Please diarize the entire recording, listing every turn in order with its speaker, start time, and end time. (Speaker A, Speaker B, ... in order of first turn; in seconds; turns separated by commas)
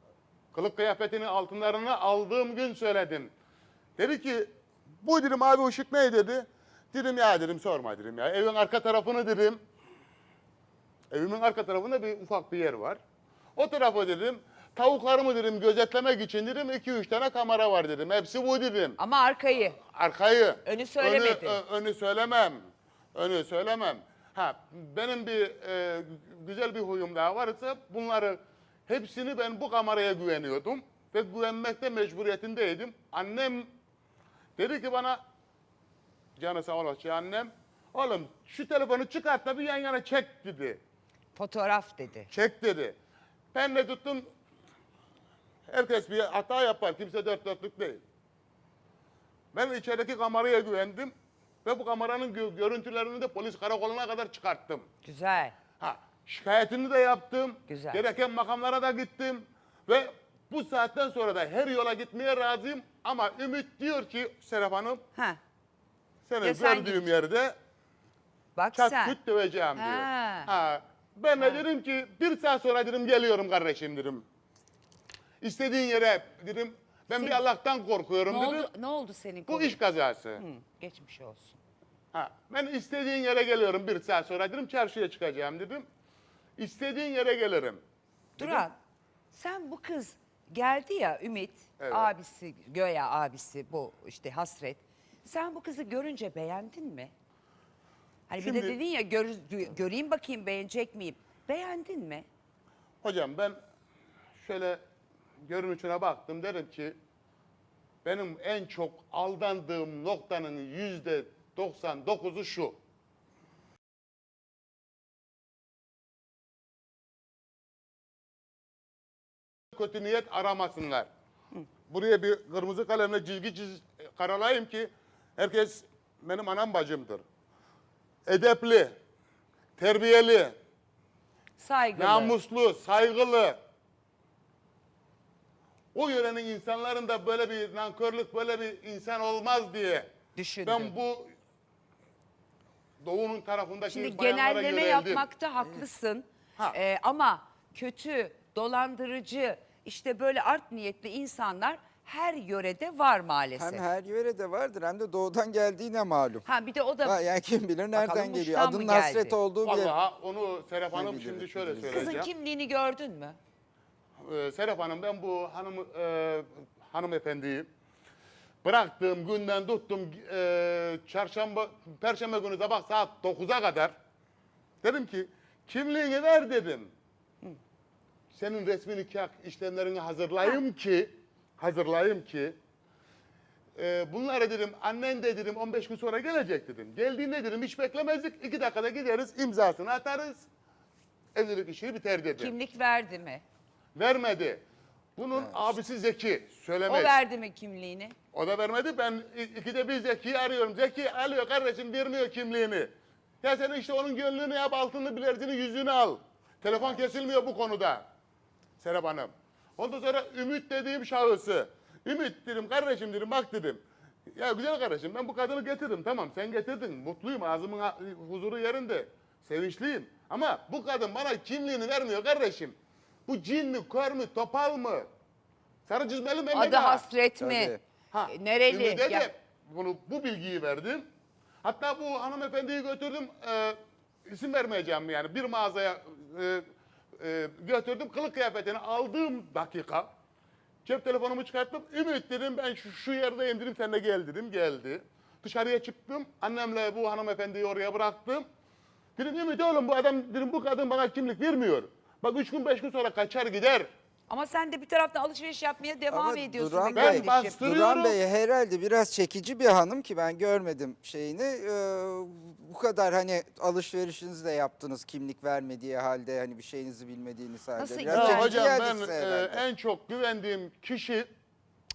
Speaker A: 0.5-3.3, Speaker A: 4.0-9.6, Speaker A: 11.1-13.0, Speaker A: 13.6-19.0, Speaker B: 19.0-19.8, Speaker A: 19.8-22.6, Speaker B: 20.6-21.6, Speaker A: 23.1-33.7, Speaker A: 34.6-35.2, Speaker A: 36.4-40.8, Speaker B: 41.3-42.3, Speaker A: 42.3-43.0, Speaker A: 43.5-44.3, Speaker A: 45.7-48.0, Speaker A: 49.5-51.1, Speaker A: 51.6-54.9, Speaker B: 55.0-55.5, Speaker A: 55.8-65.0, Speaker B: 57.7-58.0, Speaker A: 66.3-67.5, Speaker B: 66.4-67.1, Speaker B: 68.5-69.2, Speaker A: 68.8-74.2, Speaker B: 69.8-70.5, Speaker B: 71.4-71.6, Speaker A: 75.4-78.7, Speaker B: 77.1-77.4, Speaker B: 78.2-79.8, Speaker A: 79.5-80.4, Speaker B: 80.4-81.6, Speaker A: 82.1-85.9, Speaker A: 86.6-87.8, Speaker B: 88.4-88.8, Speaker A: 88.4-88.7, Speaker B: 89.3-97.1, Speaker A: 91.8-92.1, Speaker B: 98.3-102.2, Speaker A: 98.4-98.8, Speaker A: 103.0-103.6, Speaker A: 104.4-104.8, Speaker A: 105.4-107.0, Speaker A: 108.0-112.8, Speaker A: 119.7-121.1, Speaker A: 121.9-127.2, Speaker A: 128.2-128.9, Speaker A: 129.8-130.6, Speaker B: 131.6-132.4, Speaker A: 131.9-133.6, Speaker A: 135.9-140.1, Speaker B: 140.3-140.9, Speaker A: 140.6-141.3, Speaker A: 143.0-145.3, Speaker B: 143.9-153.8, Speaker C: 153.6-156.4, Speaker B: 156.4-157.2, Speaker C: 157.0-159.9, Speaker B: 157.9-159.3, Speaker A: 159.6-162.3, Speaker C: 160.9-162.2, Speaker B: 161.9-163.4, Speaker A: 164.2-167.7, Speaker A: 168.6-173.9, Speaker A: 174.8-176.9, Speaker A: 178.3-182.6, Speaker A: 183.8-190.5, Speaker A: 191.3-192.5, Speaker B: 192.4-193.4, Speaker A: 193.9-194.6, Speaker A: 195.2-197.1, Speaker B: 196.9-198.1, Speaker A: 198.3-208.0, Speaker A: 208.8-213.8, Speaker A: 214.3-222.8, Speaker A: 223.3-225.1, Speaker A: 225.9-227.0, Speaker B: 226.5-227.8, Speaker C: 227.4-227.8, Speaker A: 228.1-231.1, Speaker B: 228.3-229.3, Speaker A: 231.6-236.7, Speaker A: 237.2-240.1, Speaker A: 240.8-248.4, Speaker A: 249.2-253.9, Speaker B: 254.3-257.6, Speaker C: 256.1-269.6, Speaker A: 256.9-258.2, Speaker B: 267.8-268.8, Speaker A: 268.1-271.3